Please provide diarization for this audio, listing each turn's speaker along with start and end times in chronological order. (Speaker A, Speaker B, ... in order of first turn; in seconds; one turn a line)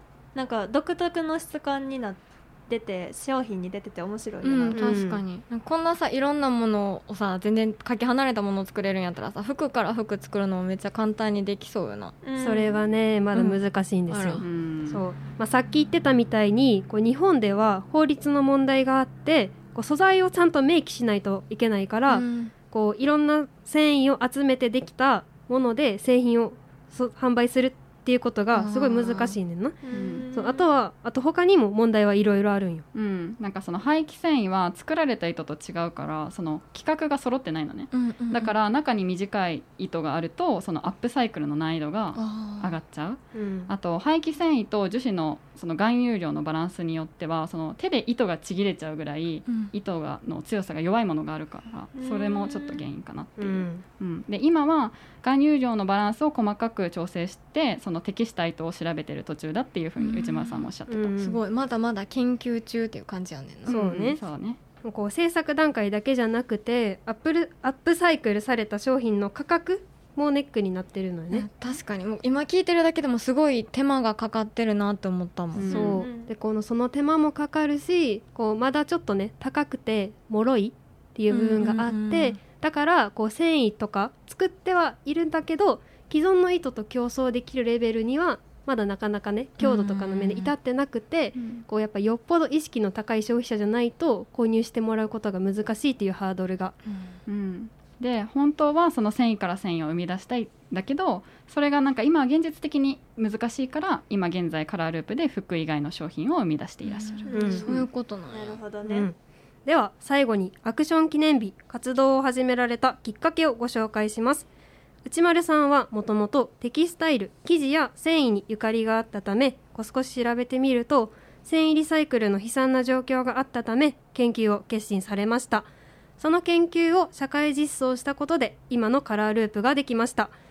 Speaker A: 0.3-4.9
Speaker B: 4.4-12.2
Speaker C: 4.7-5.2
Speaker A: 12.2-12.8
Speaker C: 12.4-29.8
Speaker B: 14.1-14.4
Speaker D: 14.4-15.0
Speaker B: 22.1-22.5
Speaker B: 28.5-29.4
Speaker A: 29.8-30.7
Speaker D: 29.9-30.3
Speaker C: 30.3-32.9
Speaker D: 32.9-61.1
Speaker B: 37.9-38.5
Speaker B: 42.1-42.7
Speaker C: 43.4-43.7
Speaker B: 49.5-49.7
Speaker A: 52.0-52.9
Speaker C: 53.4-53.8
Speaker B: 60.0-63.8
Speaker C: 60.9-61.4
Speaker C: 63.7-64.2
Speaker D: 63.7-64.6
Speaker C: 64.8-71.5
Speaker B: 71.3-75.9
Speaker D: 75.5-76.0
Speaker C: 75.7-96.8
Speaker A: 76.0-76.3
Speaker B: 81.3-82.4
Speaker B: 89.6-90.5
Speaker D: 91.4-91.6
Speaker B: 96.9-97.2
Speaker D: 97.3-107.8
Speaker B: 106.8-108.6
Speaker A: 107.3-107.6
Speaker C: 107.3-107.7
Speaker A: 108.3-109.1
Speaker C: 108.9-109.2
Speaker C: 109.7-114.5
Speaker C: 115.0-125.7
Speaker C: 126.2-130.3